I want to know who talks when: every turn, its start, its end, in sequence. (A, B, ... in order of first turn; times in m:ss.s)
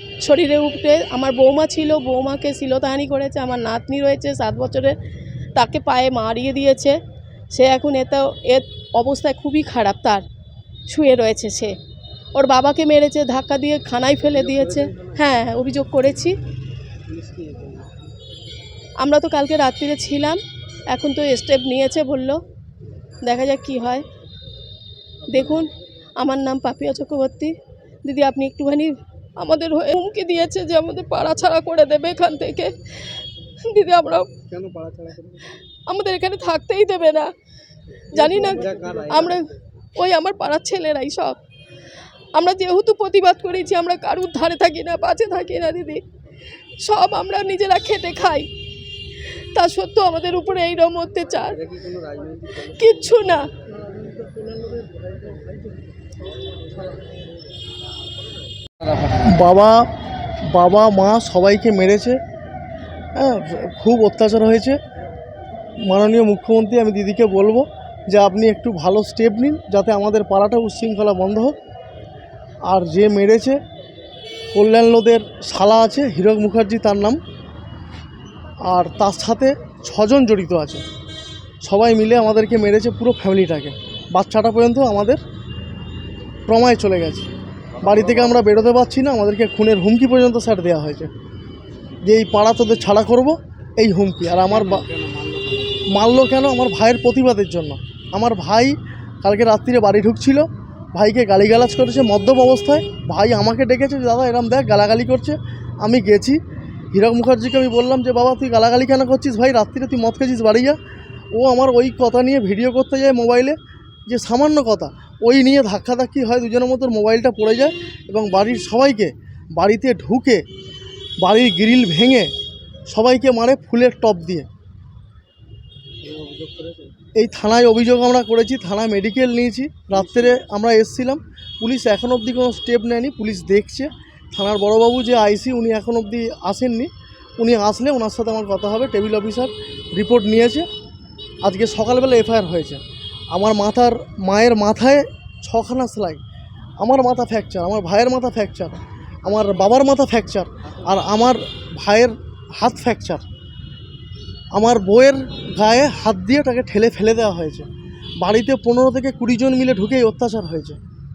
0:00.2-0:05.0 A
0:05.6-0:07.0 A
0:07.5-0:10.2 A
0:10.9-0:11.7 A
0:12.3-0:16.3 A
0:14.3-0:15.2 B
0:17.1-0:17.9 B
0:19.0-0:22.4 A
0:23.2-0:24.0 A
0:25.3-0:32.8 A
0:25.3-0:25.6 B
0:33.7-0:34.4 A
0:34.4-0:35.5 B
0:35.9-0:37.3 A
0:38.1-0:39.5 B
0:38.1-0:41.4 A
0:42.4-0:46.0 A
0:46.8-0:48.5 A
0:49.6-0:51.6 A
0:51.5-0:53.0 B
0:52.8-0:53.4 A
0:54.2-0:54.9 B
0:58.9-0:59.2 B
0:59.2-0:59.9 C
1:00.5-1:02.2 C
1:03.2-1:04.8 C
1:05.8-1:11.6 C
1:12.7-1:13.6 C
1:14.5-1:17.2 C
1:18.6-1:20.8 C
1:21.6-1:25.2 C
1:26.5-1:27.3 C
1:27.8-1:28.6 B
1:27.8-1:31.1 C
1:32.0-1:34.9 C
1:34.4-1:36.0 B
1:35.9-1:46.4 C
1:46.9-1:50.8 C
1:51.3-2:00.4 C
2:01.2-2:02.3 C
2:02.9-2:04.5 C
2:06.0-2:06.9 B
2:07.2-2:20.7 C
2:09.9-2:10.4 B
2:21.4-2:26.2 C
2:26.8-2:33.2 C
2:34.5-2:37.7 C
2:38.2-2:40.8 C